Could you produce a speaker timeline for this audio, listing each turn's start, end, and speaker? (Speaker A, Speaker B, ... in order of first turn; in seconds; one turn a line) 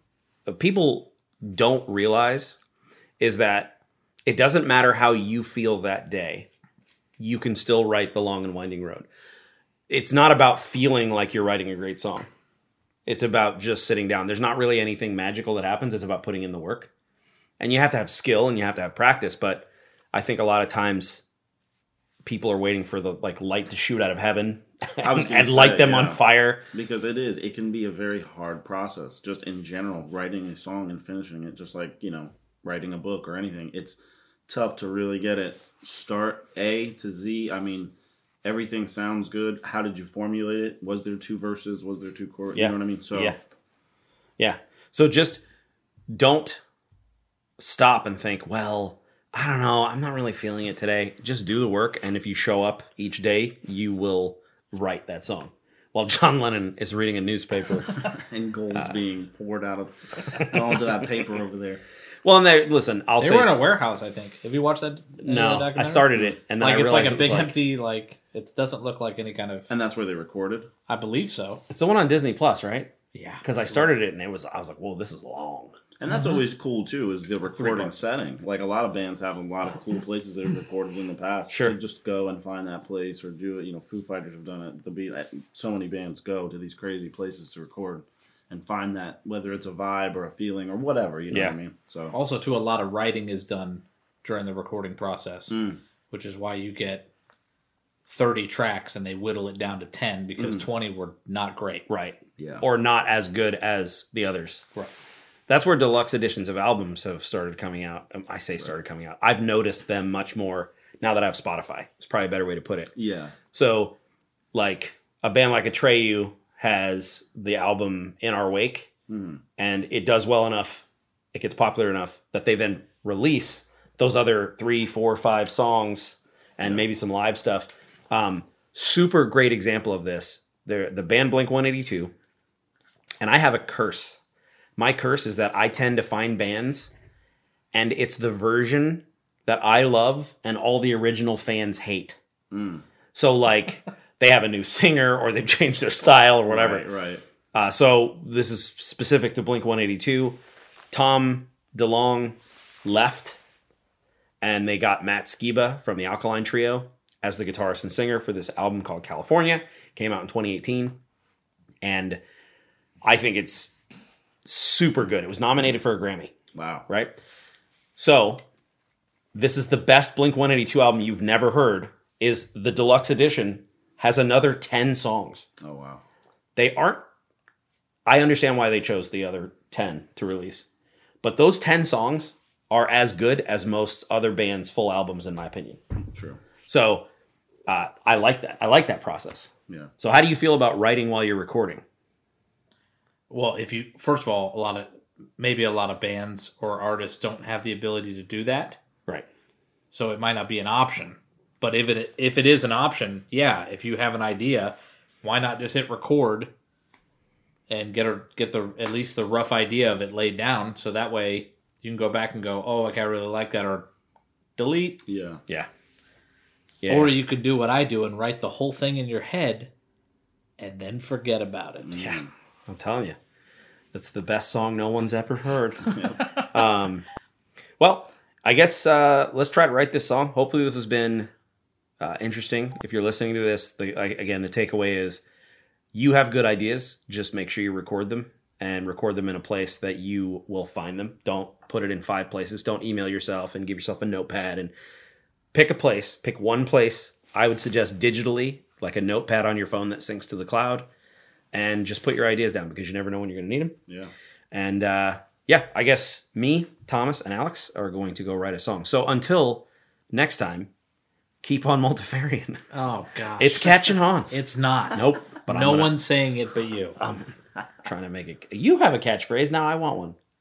Speaker A: 0.5-2.6
Speaker A: 3.2-3.8
Speaker A: 4.3-6.5
Speaker A: 7.2-9.1
Speaker A: 9.9-12.3
Speaker A: 13.1-16.9
Speaker A: 17.6-21.2
Speaker A: 22.2-26.6
Speaker B: 25.0-26.2
Speaker B: 26.7-37.9
Speaker B: 38.4-43.4
Speaker A: 42.5-43.4
Speaker A: 44.4-45.4
Speaker A: 46.1-46.6
Speaker A: 47.6-58.0
Speaker B: 58.0-61.8
Speaker A: 62.2-63.5
Speaker C: 63.2-69.7
Speaker A: 65.2-67.6
Speaker B: 69.7-70.7
Speaker C: 70.9-71.6
Speaker A: 71.7-75.8
Speaker C: 73.1-73.4
Speaker B: 76.0-92.2
Speaker C: 77.6-77.9
Speaker A: 81.5-81.8
Speaker C: 92.1-95.6
Speaker B: 95.5-95.8
Speaker C: 96.1-97.1
Speaker C: 98.1-101.9
Speaker B: 100.4-100.7
Speaker A: 101.9-104.7
Speaker B: 102.4-102.6
Speaker A: 105.5-112.9
Speaker B: 113.0-113.3
Speaker A: 113.5-114.0
Speaker A: 114.5-118.9
Speaker B: 119.1-119.4
Speaker A: 119.6-132.1
Speaker A: 133.2-134.2
Speaker A: 134.8-136.9
Speaker A: 137.7-142.2
Speaker B: 142.5-142.8
Speaker A: 143.1-146.8
Speaker B: 146.5-147.2
Speaker A: 147.5-150.4
Speaker A: 150.9-153.4
Speaker A: 154.4-161.0
Speaker A: 161.8-162.2
Speaker A: 163.0-163.8
Speaker A: 164.4-166.3
Speaker B: 166.5-166.8
Speaker A: 166.9-167.2
Speaker A: 168.0-168.4
Speaker A: 169.3-175.5
Speaker B: 175.6-176.0
Speaker A: 176.6-177.1
Speaker A: 178.1-180.7
Speaker A: 181.2-185.8
Speaker B: 186.1-186.4
Speaker A: 186.7-187.1
Speaker A: 187.7-191.8
Speaker C: 193.3-198.8
Speaker C: 199.9-206.5
Speaker C: 207.7-213.9
Speaker C: 214.6-215.0
Speaker B: 215.1-215.4
Speaker A: 216.8-217.2
Speaker C: 216.9-219.7
Speaker C: 220.6-222.0
Speaker B: 221.8-222.3
Speaker A: 222.0-223.2
Speaker A: 223.9-227.1
Speaker B: 225.9-226.2
Speaker A: 227.8-231.3
Speaker A: 232.0-235.2
Speaker A: 235.9-244.7
Speaker A: 245.5-250.9
Speaker A: 251.5-253.8
Speaker A: 254.5-260.7
Speaker A: 261.4-262.6
Speaker C: 262.7-267.0
Speaker A: 263.4-264.3
Speaker A: 264.9-266.0
Speaker A: 267.0-267.3
Speaker A: 267.8-270.2